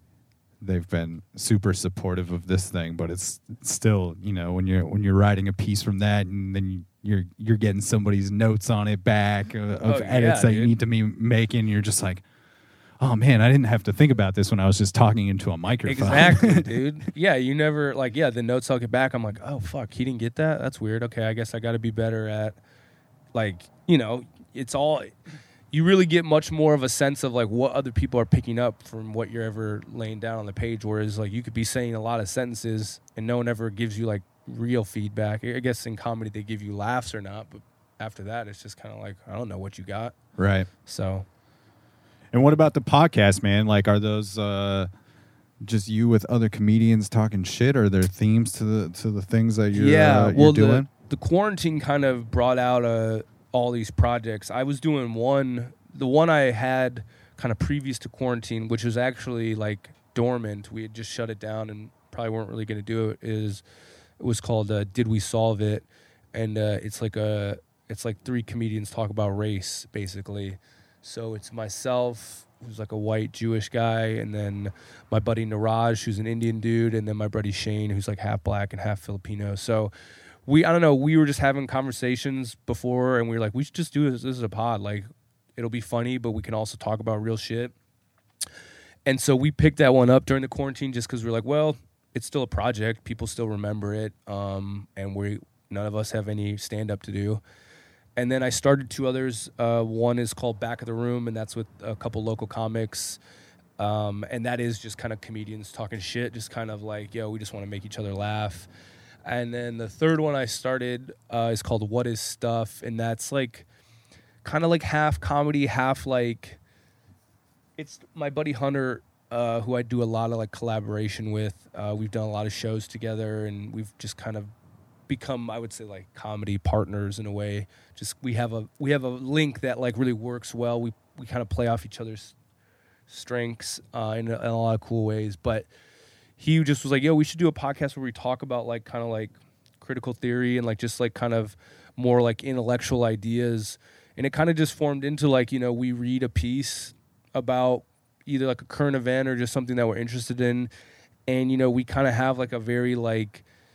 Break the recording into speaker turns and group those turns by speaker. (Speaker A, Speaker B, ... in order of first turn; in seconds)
Speaker A: 0.6-12.2, 13.0-16.7, 40.4-40.7, 42.3-44.9, 45.6-50.9
Speaker B: 9.8-10.7, 15.8-22.6, 23.3-25.1, 25.7-40.1, 40.8-41.2, 49.7-63.6, 64.2-79.9, 80.5-87.7, 89.0-97.4, 98.2-103.2, 103.8-108.7, 109.2-113.7, 114.4-116.6, 117.8-124.5, 125.1-132.3, 133.1-135.7, 136.4-150.7, 151.3-153.4